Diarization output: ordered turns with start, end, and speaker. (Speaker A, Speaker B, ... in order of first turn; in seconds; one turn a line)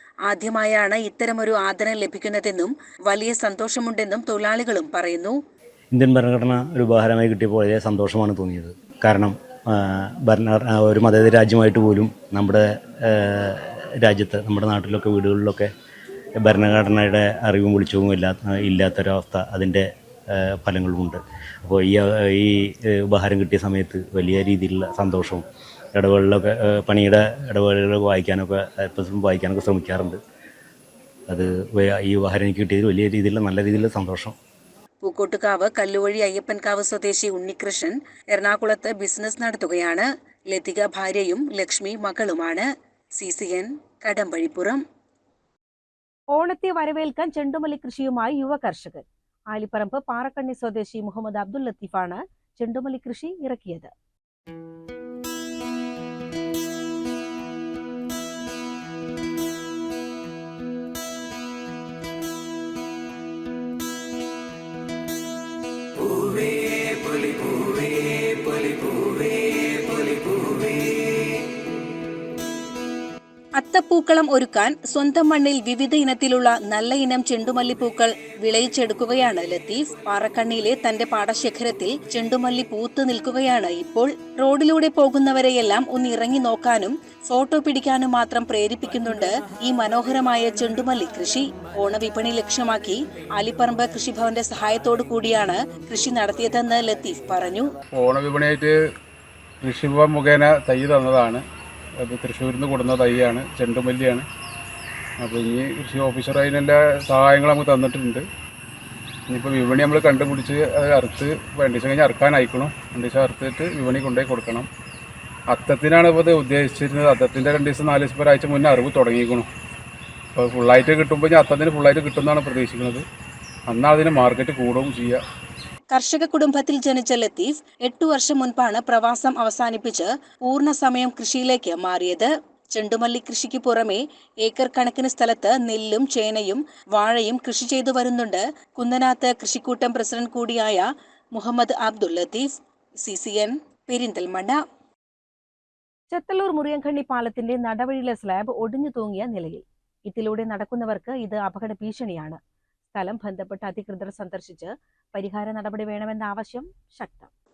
Speaker A: 0.3-5.4
Speaker B: 5.9-15.7
Speaker B: 16.4-25.4
Speaker B: 26.0-30.2
Speaker B: 31.3-34.4
Speaker A: 35.0-42.7
Speaker A: 43.2-44.8
Speaker C: 46.3-53.9
Speaker A: 73.6-97.7
Speaker D: 98.0-98.8
Speaker D: 99.6-101.4
Speaker D: 102.0-104.3
Speaker D: 105.2-108.3
Speaker D: 109.3-114.7
Speaker D: 115.5-119.5
Speaker D: 120.4-123.0
Speaker D: 123.7-125.2
Speaker A: 125.9-142.5
Speaker A: 143.0-144.6
Speaker C: 146.1-152.4
Speaker C: 152.9-157.3